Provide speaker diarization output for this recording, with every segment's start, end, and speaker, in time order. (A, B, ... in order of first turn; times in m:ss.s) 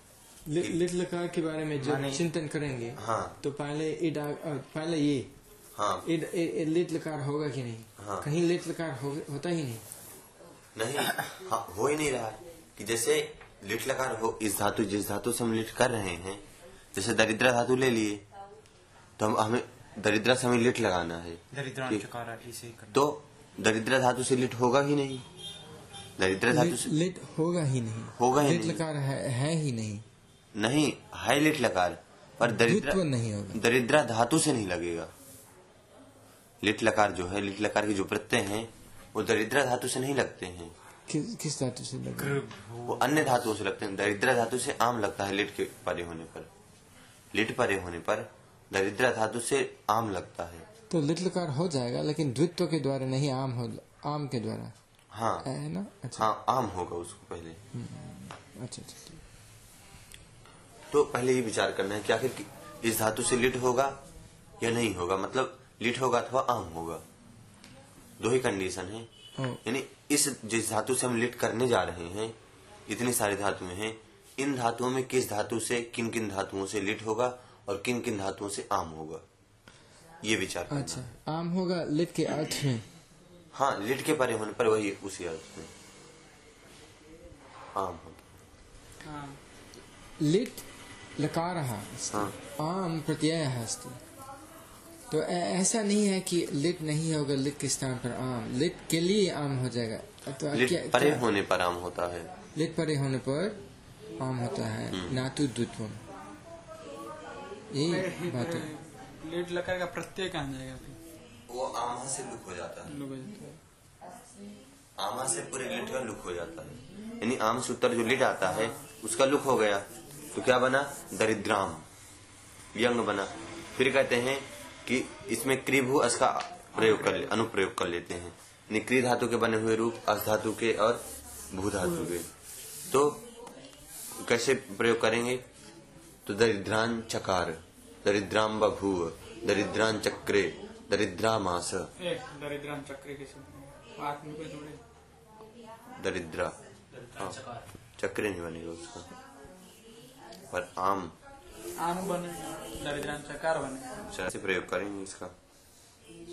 0:00.5-0:05.3 A
0:01.8-0:02.2 B
0:03.0-0:03.4 C
0:05.8-0:06.1 C
0:06.0-0:09.8 A
0:08.0-0:08.3 C
0:10.8-0:16.4 C
0:17.0-0:18.2 C
0:19.2-0:22.1 C
0:21.5-0:23.0 B
0:22.9-0:25.2 C
0:26.2-0:26.9 C
0:26.5-0:30.0 A
0:28.2-0:28.8 C
0:30.6-0:35.1 C
0:32.4-0:33.6 A
0:36.6-0:40.7 C
0:41.1-0:42.4 A
0:42.2-0:43.5 B
0:42.8-0:46.5 C
0:47.3-0:50.7 C
0:50.9-0:54.7 A
0:55.1-0:55.5 C
0:55.4-0:56.3 A
0:56.2-0:57.6 C
0:57.7-0:59.2 A
1:00.9-1:04.0 C
1:04.6-1:07.0 C
1:08.2-1:09.1 C
1:09.6-1:12.4 C
1:12.9-1:19.2 C
1:20.2-1:21.1 C
1:20.7-1:22.9 A
1:23.5-1:25.7 C
1:27.7-1:28.3 C
1:29.0-1:29.4 D
1:30.2-1:30.7 A
1:31.2-1:34.0 A
1:35.1-1:41.3 A
1:40.5-1:42.3 C
1:42.6-1:43.6 A
1:44.2-1:46.0 A
1:44.9-1:45.2 C
1:47.7-1:48.7 A
1:47.9-1:51.0 D
1:51.5-1:53.0 C
1:52.9-1:53.6 D
1:55.0-2:01.9 C
1:58.4-1:58.8 D
2:02.8-2:12.3 C
2:06.8-2:07.3 D
2:12.9-2:13.2 C
2:14.2-2:15.4 C
2:16.3-2:21.9 C
2:22.0-2:24.8 D
2:26.0-2:26.6 C
2:27.1-2:27.4 C
2:28.0-2:29.1 C
2:30.5-2:31.2 C
2:31.8-2:34.1 D
2:34.1-2:35.3 C